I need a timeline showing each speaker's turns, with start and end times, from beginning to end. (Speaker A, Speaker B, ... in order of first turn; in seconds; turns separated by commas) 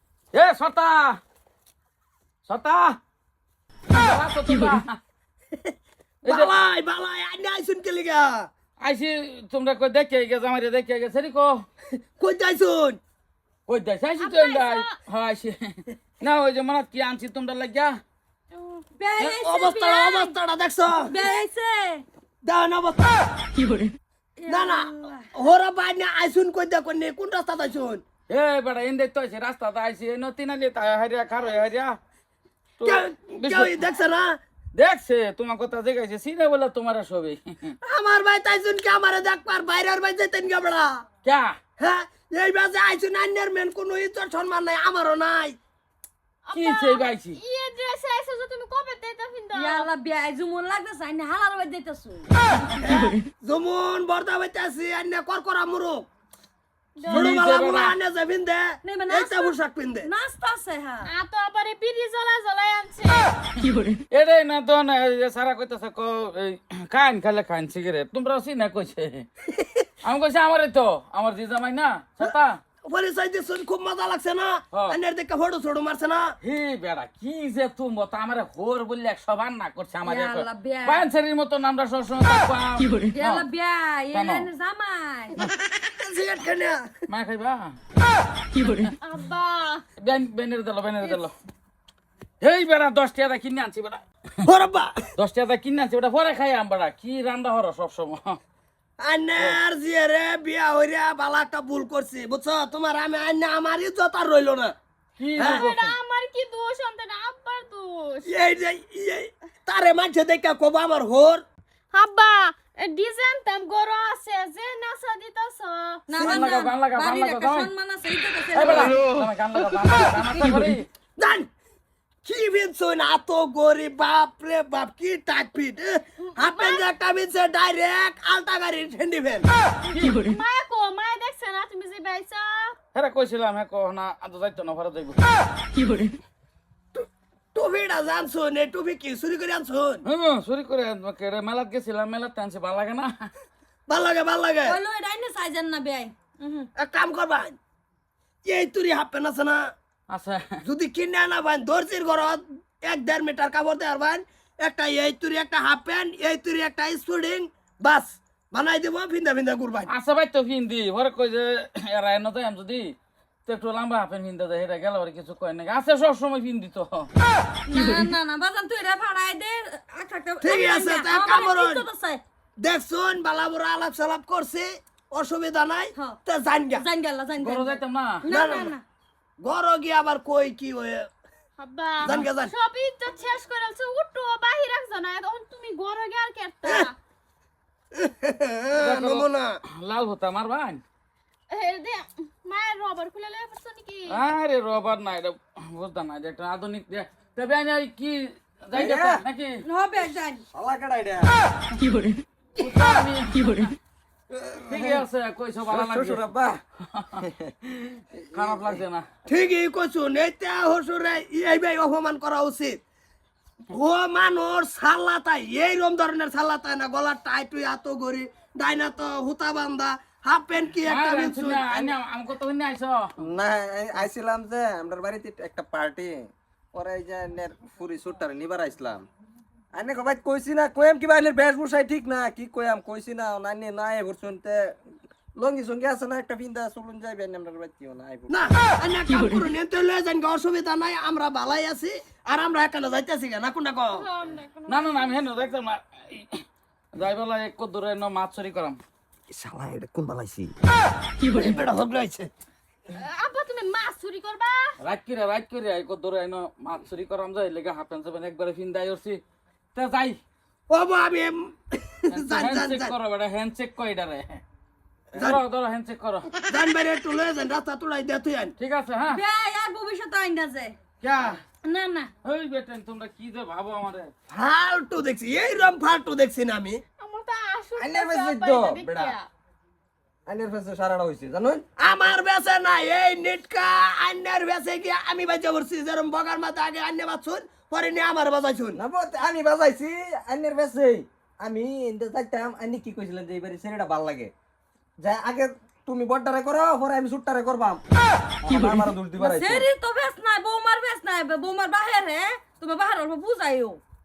Speaker A: 0.3-1.2, Speaker A: 2.4-3.0, Speaker A: 3.9-5.0, Speaker A: 6.2-6.5, Speaker B: 6.3-8.5, Speaker A: 8.8-11.6, Speaker B: 12.2-13.0, Speaker A: 13.7-18.0, Speaker C: 14.2-14.9, Speaker C: 18.5-18.8, Speaker D: 18.9-20.4, Speaker B: 19.2-21.1, Speaker D: 21.0-22.0, Speaker B: 22.4-23.2, Speaker D: 24.4-25.4, Speaker B: 24.5-28.0, Speaker A: 28.3-32.0, Speaker A: 32.8-33.8, Speaker B: 32.8-34.4, Speaker A: 34.7-37.7, Speaker B: 37.8-41.0, Speaker A: 41.2-41.5, Speaker B: 41.8-45.6, Speaker C: 46.5-49.9, Speaker A: 46.5-47.4, Speaker D: 49.5-52.3, Speaker B: 52.8-56.1, Speaker C: 57.0-57.4, Speaker A: 57.1-58.0, Speaker B: 57.1-60.1, Speaker D: 58.8-61.1, Speaker C: 61.0-63.3, Speaker A: 64.1-69.3, Speaker A: 70.0-72.6, Speaker B: 72.8-76.3, Speaker A: 74.7-75.0, Speaker A: 76.4-83.4, Speaker D: 80.0-81.0, Speaker D: 83.1-85.4, Speaker A: 84.1-84.5, Speaker B: 86.0-86.9, Speaker A: 87.1-87.8, Speaker A: 88.6-88.9, Speaker C: 89.0-89.8, Speaker A: 90.0-91.3, Speaker A: 92.4-94.0, Speaker B: 94.4-95.0, Speaker A: 95.2-98.4, Speaker B: 99.0-104.7, Speaker A: 105.2-105.9, Speaker C: 105.3-108.3, Speaker B: 105.4-105.7, Speaker B: 108.2-111.4, Speaker C: 111.9-116.1, Speaker D: 116.1-119.1, Speaker A: 116.1-117.7, Speaker B: 116.2-116.5, Speaker A: 118.5-120.9, Speaker B: 121.2-121.5, Speaker B: 122.2-129.5, Speaker C: 126.3-126.9, Speaker C: 129.9-132.8, Speaker A: 129.9-130.2, Speaker A: 132.9-135.2, Speaker B: 136.9-140.0, Speaker A: 140.0-143.3, Speaker B: 143.9-144.8, Speaker D: 144.6-146.7, Speaker B: 146.8-147.6, Speaker B: 148.4-149.7, Speaker A: 150.1-150.6, Speaker B: 150.6-159.9, Speaker A: 159.9-162.9, Speaker A: 163.4-167.1, Speaker D: 167.7-172.2, Speaker B: 170.4-171.8, Speaker B: 172.6-176.8, Speaker D: 175.9-176.2, Speaker D: 176.7-178.8, Speaker A: 177.4-178.3, Speaker B: 178.3-178.7, Speaker B: 179.4-181.1, Speaker C: 181.6-186.9, Speaker B: 182.0-182.5, Speaker B: 187.9-189.6, Speaker A: 188.7-190.8, Speaker C: 191.5-194.2, Speaker A: 194.1-199.6, Speaker E: 198.7-199.2, Speaker D: 199.6-200.4, Speaker E: 200.5-201.3, Speaker A: 202.6-203.7, Speaker E: 204.7-205.0, Speaker A: 204.7-206.3, Speaker E: 205.7-206.6, Speaker A: 206.9-207.2, Speaker E: 207.2-208.8, Speaker A: 208.3-209.1, Speaker B: 209.2-212.8, Speaker B: 213.7-221.8, Speaker A: 220.8-223.1, Speaker E: 223.2-229.0, Speaker E: 229.7-234.8, Speaker E: 235.3-238.3, Speaker B: 238.3-244.0, Speaker C: 243.9-245.1, Speaker A: 244.7-246.4, Speaker A: 246.9-248.8, Speaker B: 249.3-250.5, Speaker B: 251.2-252.3, Speaker C: 252.9-254.8, Speaker A: 254.8-259.2, Speaker A: 259.7-260.2, Speaker B: 260.7-262.9, Speaker A: 262.1-264.4, Speaker B: 265.1-265.4, Speaker A: 265.1-266.3, Speaker B: 266.5-268.5, Speaker A: 268.6-269.2, Speaker D: 269.1-270.8, Speaker A: 271.0-271.4, Speaker D: 271.6-272.1, Speaker A: 272.2-274.1, Speaker B: 274.3-276.8, Speaker C: 277.0-279.3, Speaker E: 277.8-279.1, Speaker E: 280.2-281.6, Speaker B: 281.8-288.8, Speaker E: 288.8-294.3, Speaker E: 295.0-297.8, Speaker E: 298.4-299.6, Speaker D: 299.2-303.8